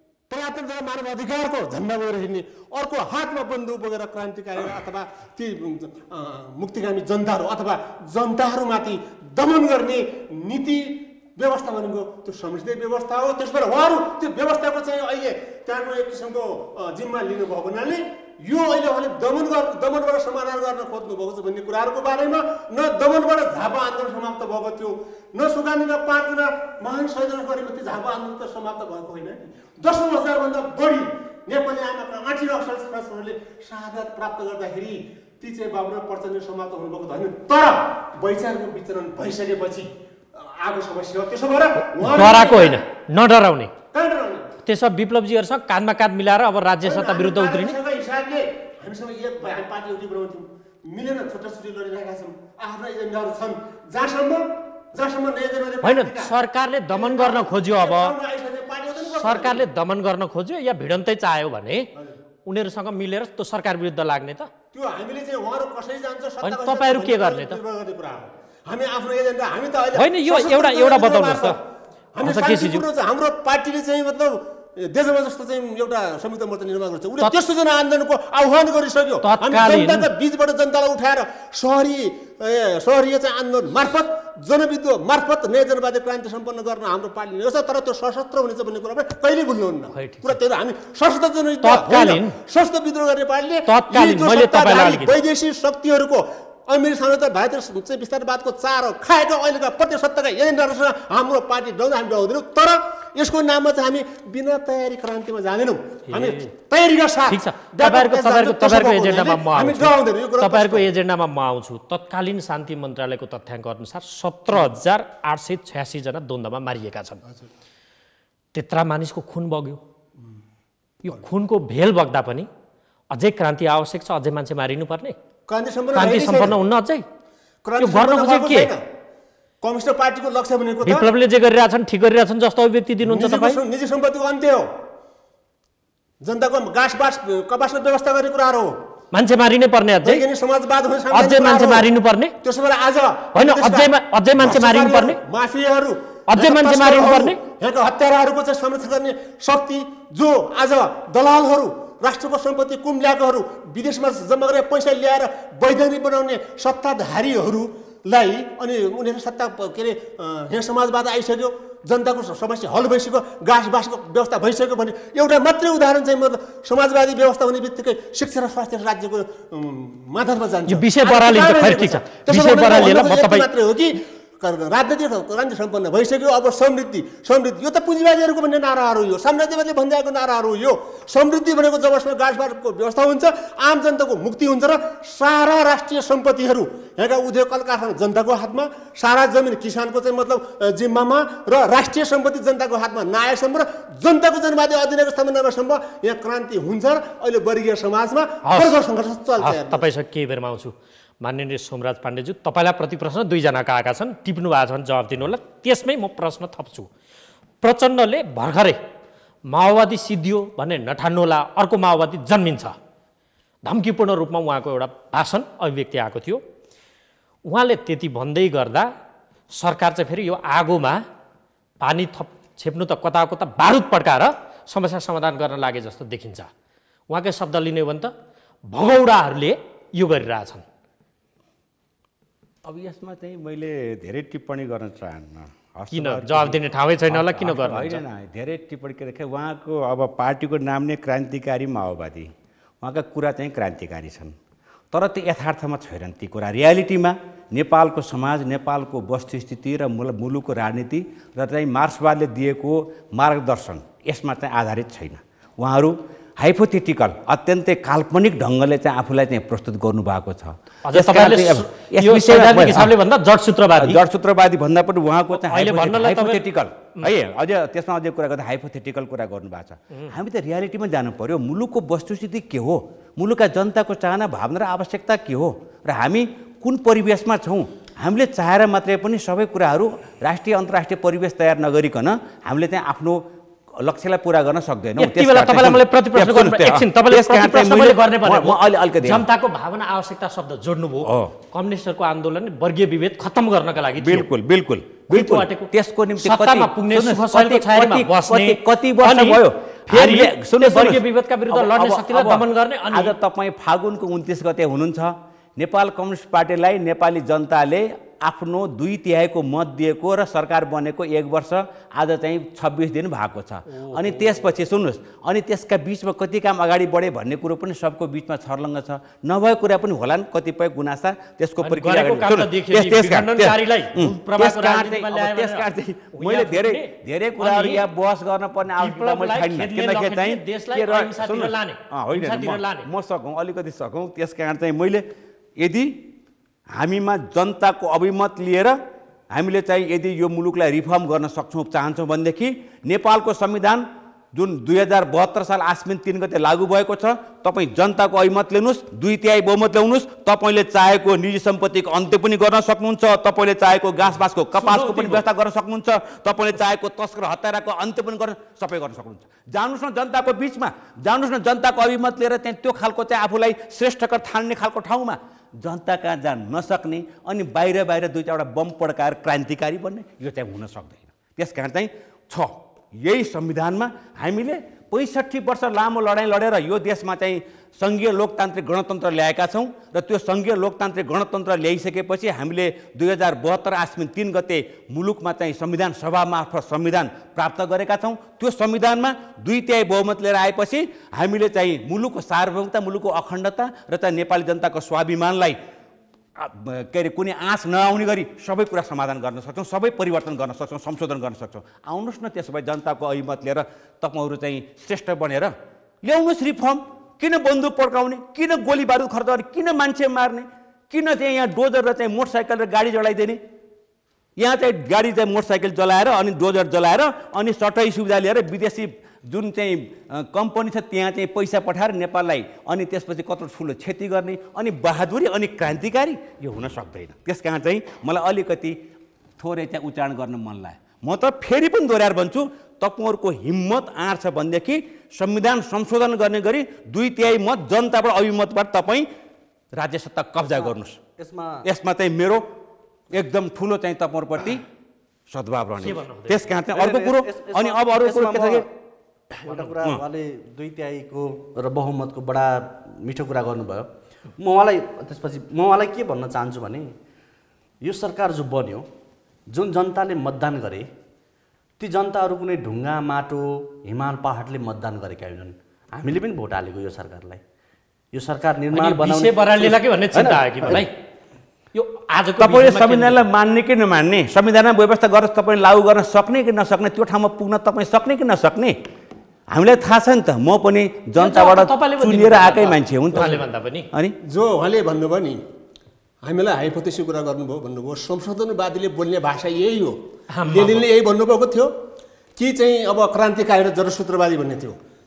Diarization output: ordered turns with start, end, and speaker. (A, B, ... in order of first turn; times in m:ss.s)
0:00.3-0:42.8 A
0:41.8-0:43.7 B
0:43.9-0:44.5 A
0:44.6-0:47.8 B
0:46.8-0:56.3 A
0:55.8-0:58.1 B
0:56.9-0:59.6 A
0:59.1-1:01.9 B
1:02.4-1:04.5 B
1:04.7-1:11.6 A
1:06.4-1:07.6 B
1:09.9-1:11.6 B
1:12.1-1:50.9 A
1:12.2-1:12.8 B
1:19.2-1:20.1 B
1:29.9-1:30.4 B
1:31.6-1:32.4 B
1:33.6-1:35.2 B
1:46.1-1:46.5 B
1:47.3-1:57.2 B
1:58.5-1:59.8 B
2:01.0-2:02.5 B
2:03.1-2:05.2 B
2:05.5-2:06.6 A
2:05.9-2:07.0 B
2:07.6-2:08.8 A
2:07.8-2:08.7 B
2:09.6-2:11.1 A
2:10.8-2:13.6 B
2:13.0-2:14.7 A
2:16.2-2:18.7 A
2:19.1-2:20.2 B
2:20.0-2:21.9 A
2:21.1-2:22.3 B
2:22.4-3:19.8 A
2:23.4-2:25.2 B
2:26.3-2:27.4 B
2:50.7-2:53.5 B
3:18.4-3:18.8 B
3:19.4-3:26.9 B
3:27.6-3:28.8 B
3:29.5-3:32.8 B
3:33.6-3:36.4 B
3:37.4-3:38.9 B
3:39.5-3:41.0 B
3:41.8-3:46.5 B
3:47.1-3:48.1 B
3:48.7-3:50.6 B
3:52.6-4:02.3 C
3:55.9-3:58.0 B
4:02.8-4:04.4 C
4:04.9-4:22.9 C
4:20.8-4:24.0 B
4:23.8-4:43.2 C
4:25.3-4:26.4 B
4:43.8-4:49.2 C
4:45.0-4:54.2 B
4:51.0-4:51.3 C
4:54.0-5:35.0 C
4:55.1-4:55.7 B
4:56.2-5:03.1 B
5:13.7-5:14.5 B
5:21.6-5:26.9 B
5:27.4-5:27.8 B
5:28.8-5:32.9 B
5:35.6-5:35.9 C
5:36.7-5:38.8 C
5:39.3-6:35.6 C
5:54.6-5:55.2 B
6:36.4-6:53.4 C
6:54.4-7:08.7 C
7:09.4-7:19.1 C
7:19.7-7:21.0 C
7:20.6-7:21.6 D
7:21.6-7:22.4 C
7:23.1-7:24.6 C
7:25.3-7:28.6 C
7:25.8-7:26.5 B
7:26.7-7:28.7 D
7:29.3-7:36.9 D
7:29.7-7:30.0 C
7:37.8-7:38.9 D
7:39.5-7:40.9 D
7:41.8-7:47.4 D
7:48.1-7:50.8 D
7:48.7-7:50.9 B
7:51.7-7:53.2 B
7:52.4-7:58.8 C
7:59.5-8:04.1 C
8:01.2-8:03.9 B
8:04.2-8:05.4 A
8:06.2-8:10.0 A
8:10.3-8:10.8 B
8:10.5-8:11.7 A
8:12.4-8:14.8 A